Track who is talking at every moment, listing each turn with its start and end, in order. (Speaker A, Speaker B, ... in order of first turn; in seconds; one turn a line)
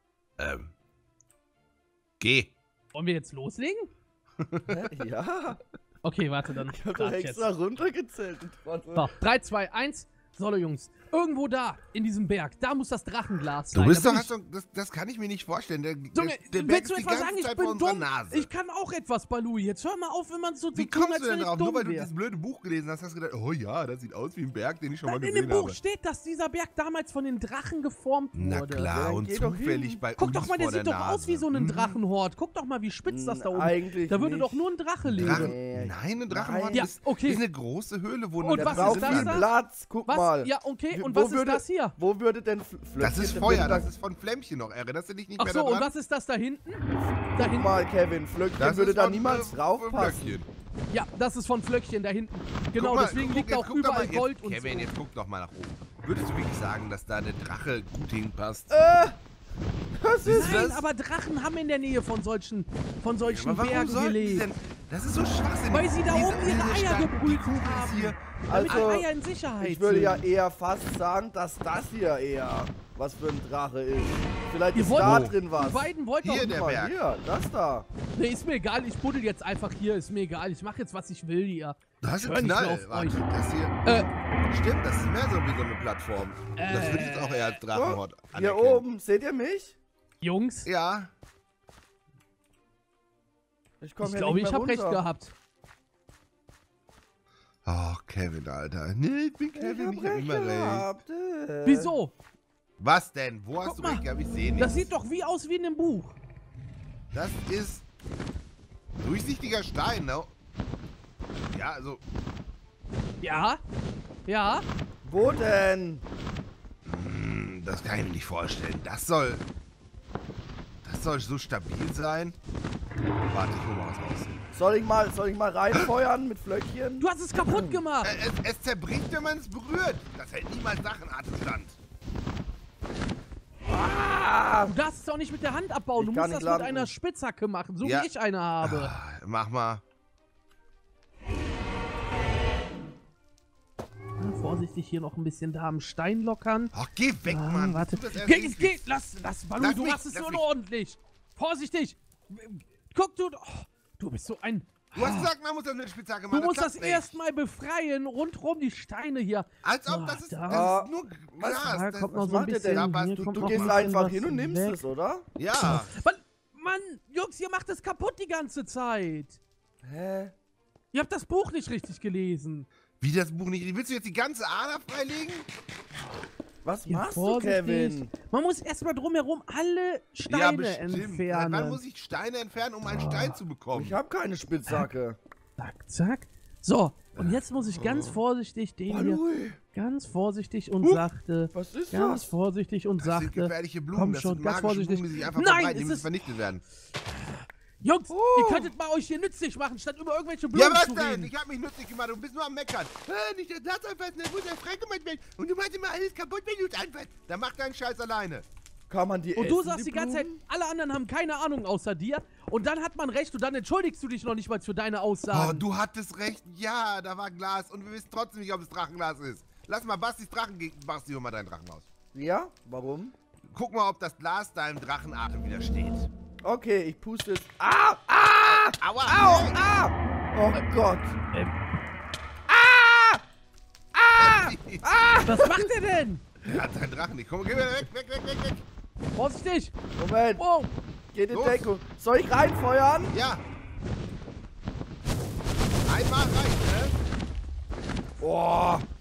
Speaker A: 0.4-0.7
Speaker A: 2.2-2.5
Speaker B: 2.9-3.9
Speaker C: 4.7-5.6
Speaker B: 6.0-7.5
Speaker C: 6.7-9.1
Speaker B: 8.9-14.3
Speaker A: 13.7-18.5
Speaker B: 16.1-22.1
Speaker A: 20.7-25.8
Speaker B: 25.1-28.9
Speaker A: 28.3-32.0
Speaker C: 28.9-30.0
Speaker B: 30.2-35.5
Speaker C: 33.1-36.9
Speaker A: 35.1-39.5
Speaker B: 36.7-37.4
Speaker B: 38.4-39.5
Speaker C: 38.6-43.9
Speaker B: 40.0-41.9
Speaker A: 43.0-45.9
Speaker B: 45.4-47.8
Speaker C: 47.4-50.4
Speaker A: 48.6-50.5
Speaker B: 50.9-54.9
Speaker A: 52.8-58.7
Speaker C: 58.7-59.2
Speaker C: 60.0-60.6
Speaker A: 60.2-60.8
Speaker B: 60.2-64.5
Speaker A: 63.2-69.0
Speaker B: 65.7-70.2
Speaker C: 68.5-69.0
Speaker C: 69.6-75.9
Speaker B: 74.7-76.6
Speaker A: 75.0-75.3
Speaker A: 76.2-77.0
Speaker C: 76.5-77.9
Speaker B: 78.1-83.2
Speaker A: 82.0-88.8
Speaker B: 83.8-84.1
Speaker B: 86.5-87.6
Speaker C: 87.7-89.8
Speaker B: 90.2-90.7
Speaker A: 90.6-91.1
Speaker C: 93.8-95.0
Speaker B: 94.0-95.3
Speaker A: 97.7-100.9
Speaker C: 99.5-101.9
Speaker B: 101.6-102.1
Speaker A: 102.8-104.9
Speaker B: 103.6-104.0
Speaker B: 104.5-106.2
Speaker A: 107.1-107.8
Speaker A: 109.0-110.3
Speaker A: 111.5-112.0
Speaker B: 113.2-113.6
Speaker B: 114.2-114.6
Speaker C: 115.0-116.0
Speaker A: 116.8-119.4
Speaker A: 120.8-122.4
Speaker A: 123.3-124.3
Speaker C: 124.5-127.8
Speaker B: 127.0-128.1
Speaker A: 128.0-131.8
Speaker C: 133.6-134.7
Speaker B: 134.7-138.9
Speaker C: 136.0-136.9
Speaker A: 137.8-138.1
Speaker A: 138.6-139.8
Speaker B: 144.2-146.7
Speaker A: 146.7-148.8
Speaker B: 147.2-155.3
Speaker A: 149.6-150.4
Speaker A: 154.9-157.1
Speaker B: 156.3-160.7
Speaker A: 159.6-163.8
Speaker C: 160.5-165.2
Speaker B: 161.5-164.8
Speaker A: 165.3-165.9
Speaker B: 165.6-169.4
Speaker C: 169.8-170.3
Speaker B: 170.9-172.7
Speaker A: 173.0-175.5
Speaker C: 176.6-178.1
Speaker B: 176.9-181.8
Speaker A: 180.2-184.0
Speaker B: 182.8-183.4
Speaker C: 183.7-185.2
Speaker B: 185.6-189.2
Speaker A: 187.1-188.2
Speaker C: 188.9-189.6
Speaker B: 189.7-196.2
Speaker C: 191.5-192.2
Speaker A: 193.0-196.6
Speaker B: 197.2-201.3
Speaker C: 198.1-198.7
Speaker A: 200.5-208.4
Speaker C: 208.9-210.3
Speaker B: 209.3-215.6
Speaker A: 215.3-221.8
Speaker C: 222.1-223.1
Speaker A: 223.5-226.1
Speaker C: 226.4-231.2
Speaker A: 228.4-229.6
Speaker C: 232.5-233.2
Speaker C: 233.9-235.7
Speaker A: 234.2-234.8
Speaker B: 235.2-236.4
Speaker A: 236.4-238.6
Speaker B: 239.1-239.7
Speaker C: 240.0-240.4
Speaker B: 240.4-240.7
Speaker C: 241.1-243.1
Speaker A: 241.3-241.6
Speaker A: 243.1-243.4
Speaker A: 245.9-246.9
Speaker C: 248.2-248.8